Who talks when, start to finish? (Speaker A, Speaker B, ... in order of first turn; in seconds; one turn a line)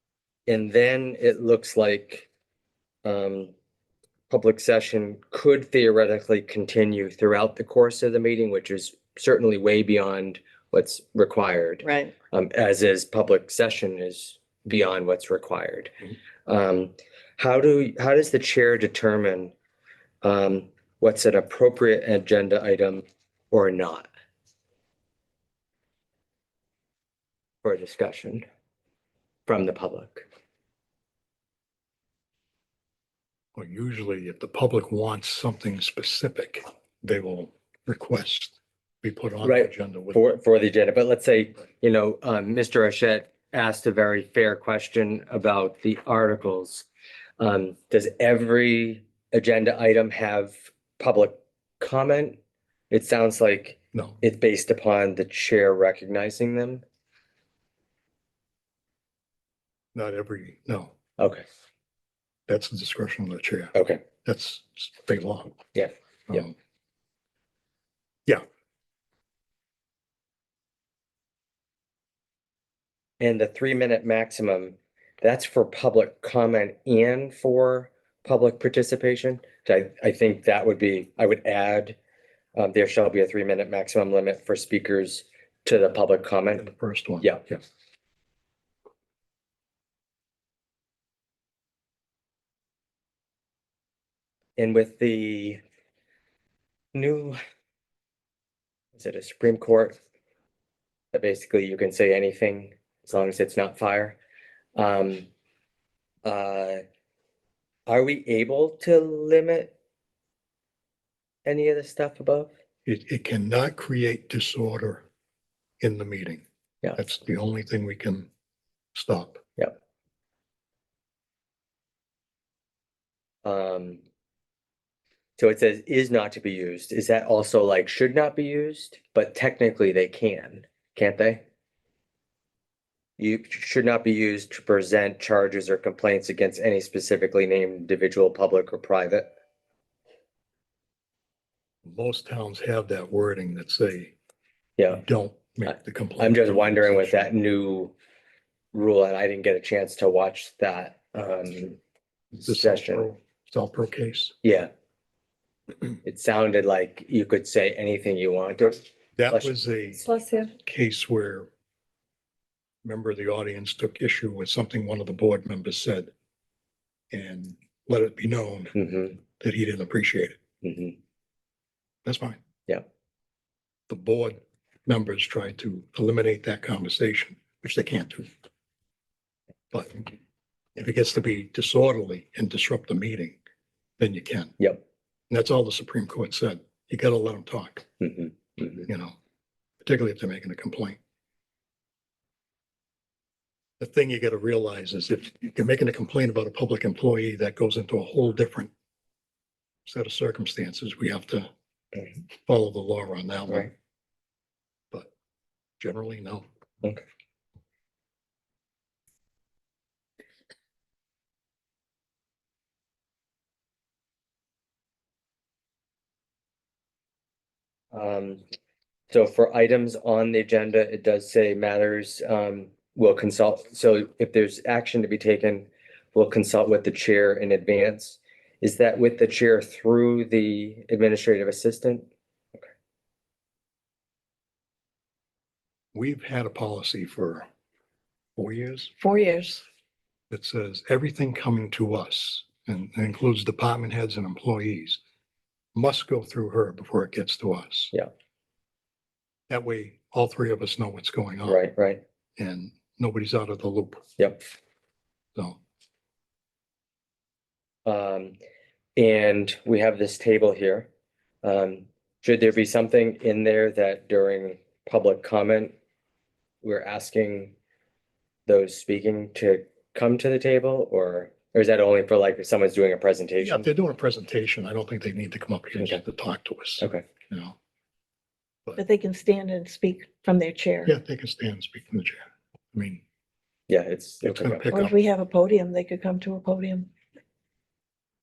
Speaker A: 0.5-2.3
Speaker A: 3.0-3.5
Speaker A: 4.3-15.9
Speaker A: 16.4-19.5
Speaker A: 20.2-24.1
Speaker A: 27.6-28.4
Speaker A: 29.5-30.2
Speaker B: 33.5-40.2
Speaker A: 39.4-46.9
Speaker A: 47.4-52.4
Speaker A: 52.9-56.8
Speaker B: 53.9-54.2
Speaker B: 59.9-60.9
Speaker A: 61.2-61.4
Speaker B: 62.5-65.6
Speaker A: 63.7-64.0
Speaker A: 65.7-66.5
Speaker B: 66.3-66.5
Speaker A: 73.2-82.0
Speaker A: 82.5-86.7
Speaker B: 86.6-87.5
Speaker A: 94.6-95.6
Speaker A: 96.9-97.4
Speaker A: 99.0-100.0
Speaker A: 101.1-104.2
Speaker A: 104.8-105.3
Speaker A: 106.2-106.8
Speaker A: 107.9-109.7
Speaker A: 111.4-112.5
Speaker B: 112.8-115.0
Speaker B: 115.8-116.4
Speaker B: 117.0-118.3
Speaker B: 118.9-119.4
Speaker A: 123.4-124.0
Speaker A: 125.4-131.4
Speaker A: 133.2-139.3
Speaker B: 141.8-144.1
Speaker A: 144.8-145.0
Speaker B: 144.9-147.4
Speaker A: 145.7-147.9
Speaker A: 148.7-151.8
Speaker B: 152.3-154.3
Speaker A: 152.4-153.1
Speaker A: 154.4-154.7
Speaker A: 156.0-159.5
Speaker B: 159.2-160.0
Speaker C: 160.1-160.5
Speaker B: 160.6-161.5
Speaker B: 162.8-166.1
Speaker B: 167.1-168.7
Speaker A: 168.7-169.2
Speaker B: 169.4-170.4
Speaker A: 170.6-170.9
Speaker B: 172.0-172.4
Speaker B: 173.9-178.3
Speaker B: 179.7-180.1
Speaker B: 180.8-183.4
Speaker B: 184.0-184.5
Speaker B: 185.3-187.8
Speaker A: 188.0-188.9
Speaker B: 188.8-189.1
Speaker B: 189.8-191.0
Speaker B: 193.8-198.7
Speaker B: 199.8-201.5
Speaker B: 202.4-203.7
Speaker B: 205.8-206.4
Speaker A: 217.9-218.4
Speaker A: 219.1-232.6
Speaker B: 235.9-237.4
Speaker B: 238.4-238.9
Speaker C: 239.0-239.6
Speaker B: 240.3-245.0
Speaker B: 245.7-247.9
Speaker B: 249.5-251.6
Speaker A: 251.4-252.0
Speaker B: 252.4-254.0
Speaker A: 257.8-258.4
Speaker A: 258.9-260.9
Speaker A: 261.4-265.7
Speaker A: 266.6-267.5
Speaker A: 268.5-273.7
Speaker B: 273.4-277.6
Speaker A: 275.8-276.0
Speaker A: 276.8-277.1
Speaker C: 278.8-280.9
Speaker B: 280.9-283.0
Speaker A: 283.7-284.6
Speaker B: 284.2-285.0
Speaker C: 284.7-286.9